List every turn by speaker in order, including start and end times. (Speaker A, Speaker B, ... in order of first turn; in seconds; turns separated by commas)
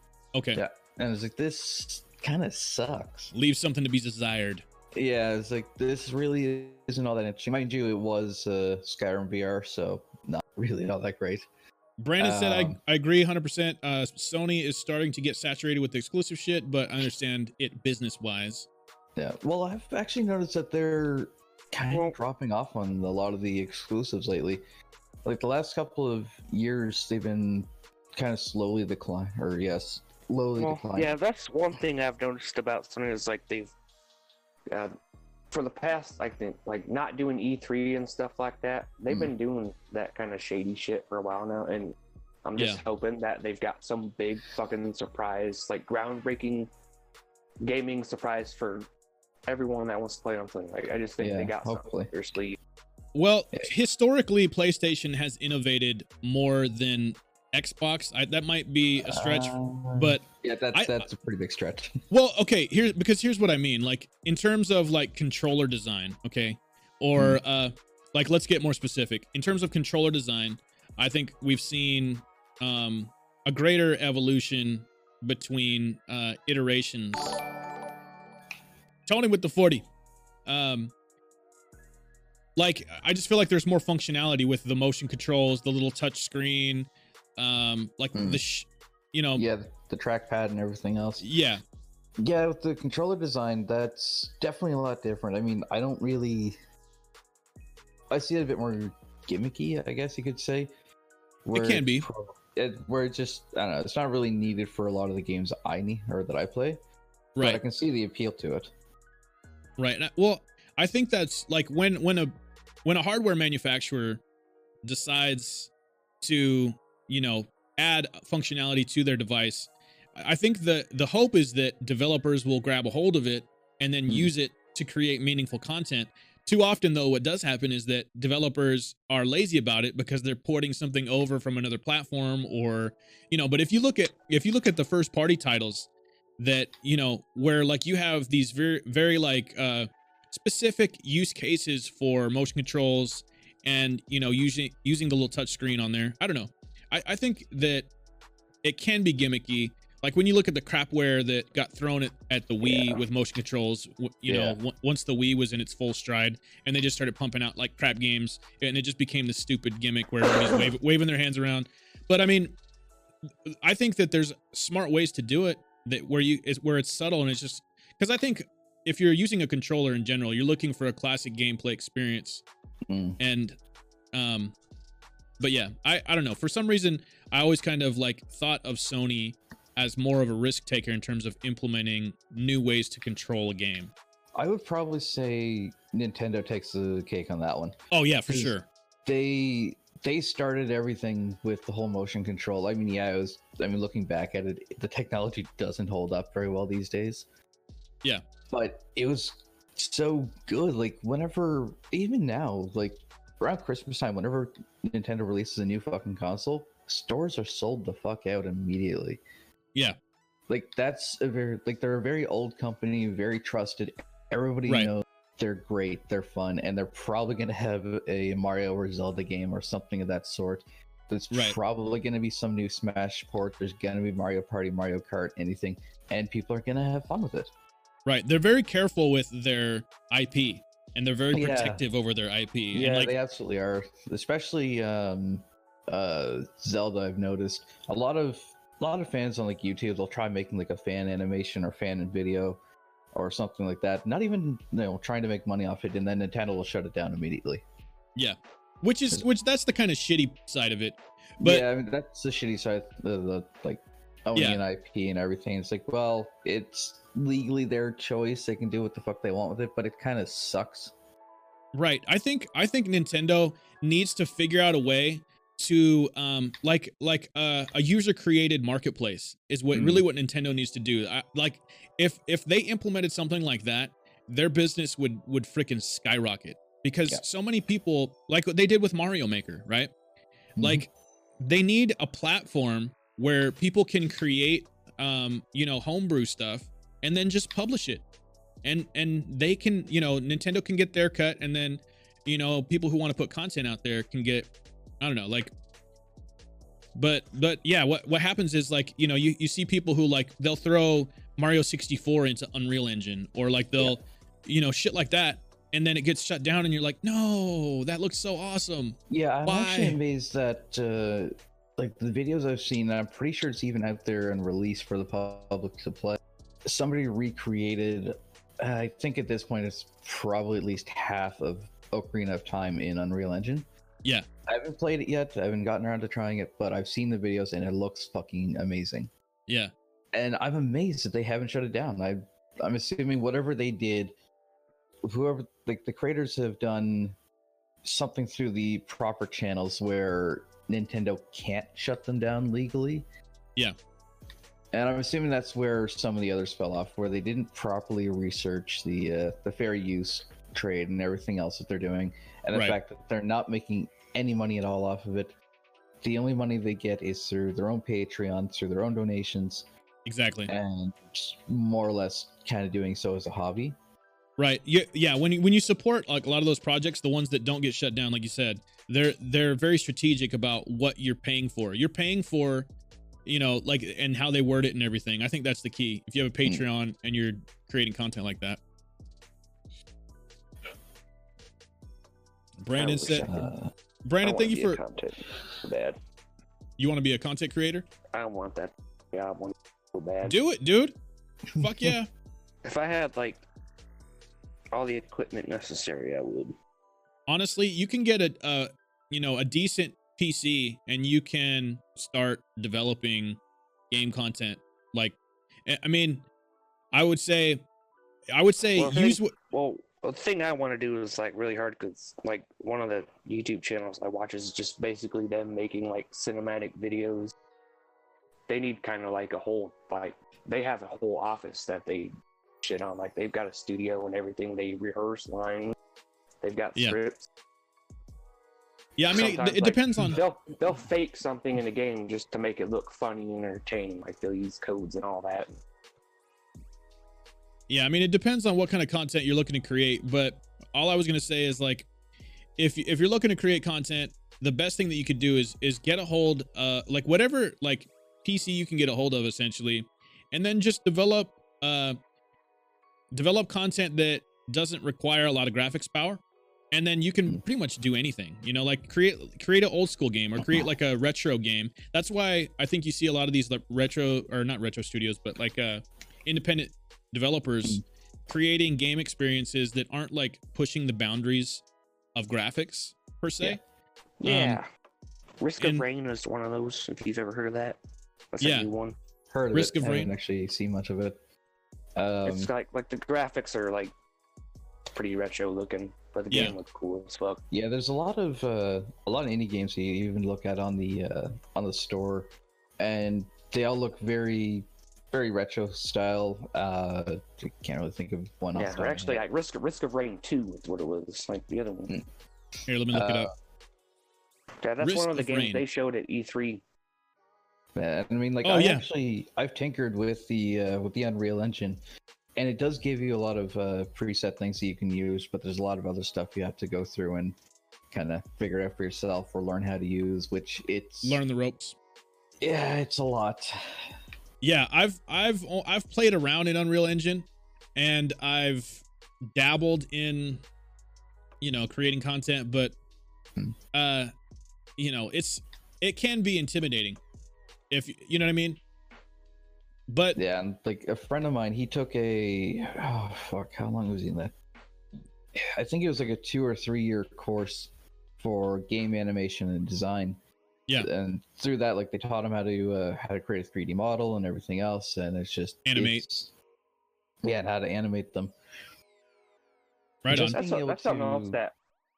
Speaker A: 0.3-0.6, Speaker B: 0.5-3.3, Speaker A: 3.3-4.6, Speaker B: 4.9-11.4, Speaker A: 12.0-18.7, Speaker B: 12.2-12.8, Speaker B: 19.1-24.6, Speaker B: 25.2-31.1, Speaker C: 30.6-33.7, Speaker C: 35.5-46.7, Speaker A: 42.5-42.8, Speaker C: 47.6-48.9, Speaker C: 49.5-52.6, Speaker B: 51.2-52.1, Speaker A: 53.1-61.1, Speaker B: 59.0-62.0, Speaker A: 62.1-77.4, Speaker A: 79.0-79.8, Speaker A: 80.5-80.9, Speaker A: 82.5-89.4, Speaker B: 88.1-88.4, Speaker B: 89.3-91.2, Speaker A: 91.2-91.6, Speaker B: 92.2-96.6, Speaker B: 98.1-100.7, Speaker B: 101.4-106.8, Speaker A: 101.5-102.1, Speaker A: 107.3-107.6, Speaker B: 107.4-108.7, Speaker A: 109.8-112.3, Speaker A: 112.8-114.2, Speaker A: 114.8-115.7, Speaker A: 116.2-135.9, Speaker A: 136.4-147.9, Speaker A: 148.6-162.5, Speaker B: 152.6-153.0, Speaker B: 154.2-154.6, Speaker A: 163.5-172.4, Speaker B: 172.9-173.2, Speaker A: 173.2-173.6, Speaker A: 174.1-174.5, Speaker A: 175.4-183.9, Speaker B: 184.3-188.5, Speaker A: 187.9-188.7, Speaker B: 189.0-197.2, Speaker B: 198.5-209.2, Speaker B: 210.5-227.5, Speaker A: 221.3-221.6, Speaker A: 228.1-233.1, Speaker B: 231.3-231.8, Speaker B: 232.7-242.6, Speaker B: 243.1-247.6, Speaker A: 248.2-251.7, Speaker B: 251.4-260.9, Speaker A: 254.3-254.6, Speaker A: 261.7-279.9, Speaker B: 269.7-270.0, Speaker B: 280.6-280.9, Speaker A: 280.6-280.9, Speaker A: 281.4-288.0, Speaker A: 288.6-294.5, Speaker A: 295.0-295.5, Speaker A: 296.9-310.0, Speaker B: 309.1-323.6, Speaker B: 324.5-329.1, Speaker B: 330.1-334.1, Speaker B: 335.0-337.1, Speaker B: 337.8-343.1, Speaker B: 344.7-355.3, Speaker B: 356.0-359.7, Speaker A: 360.1-360.5, Speaker B: 360.5-363.8, Speaker A: 364.4-372.7, Speaker A: 373.2-378.6, Speaker A: 382.6-383.3, Speaker C: 382.8-383.5, Speaker B: 383.2-383.7, Speaker A: 384.0-384.8, Speaker C: 384.2-386.0, Speaker A: 386.8-387.9, Speaker C: 388.1-390.4, Speaker A: 390.2-390.9, Speaker B: 391.5-391.9, Speaker A: 391.6-392.1, Speaker C: 392.6-393.4, Speaker C: 394.7-396.5, Speaker A: 397.3-403.4, Speaker A: 403.9-406.2, Speaker A: 406.9-407.6, Speaker A: 408.3-409.3, Speaker C: 408.7-417.3, Speaker C: 418.5-425.8, Speaker C: 426.4-427.3, Speaker A: 429.0-430.2, Speaker C: 429.1-435.5, Speaker A: 437.7-441.9, Speaker A: 442.6-452.0, Speaker A: 453.1-456.2, Speaker A: 456.7-471.6, Speaker A: 472.1-473.6, Speaker C: 474.2-474.6, Speaker A: 474.2-474.6, Speaker C: 475.4-477.8, Speaker A: 475.6-475.8, Speaker C: 478.3-478.9, Speaker A: 478.4-478.7, Speaker B: 479.3-481.2, Speaker A: 479.5-480.1, Speaker B: 481.9-482.5, Speaker C: 482.2-483.9, Speaker C: 484.9-487.4, Speaker A: 486.3-486.6, Speaker B: 487.5-499.2, Speaker C: 498.5-501.9, Speaker A: 502.7-503.3, Speaker B: 502.9-503.3, Speaker C: 504.6-506.6, Speaker A: 504.8-505.6, Speaker B: 507.7-511.8, Speaker A: 508.4-508.8, Speaker B: 512.4-517.4, Speaker B: 517.9-521.2, Speaker A: 521.0-521.7, Speaker B: 522.4-523.8, Speaker A: 524.4-530.4, Speaker A: 531.4-532.7, Speaker A: 533.7-534.1, Speaker A: 534.8-537.0, Speaker A: 537.7-538.6, Speaker A: 539.9-540.2, Speaker B: 540.1-544.3, Speaker B: 545.3-550.2, Speaker B: 550.8-556.3, Speaker A: 555.6-556.0, Speaker B: 557.2-558.3, Speaker A: 560.0-560.4, Speaker B: 560.1-561.4, Speaker C: 560.1-561.5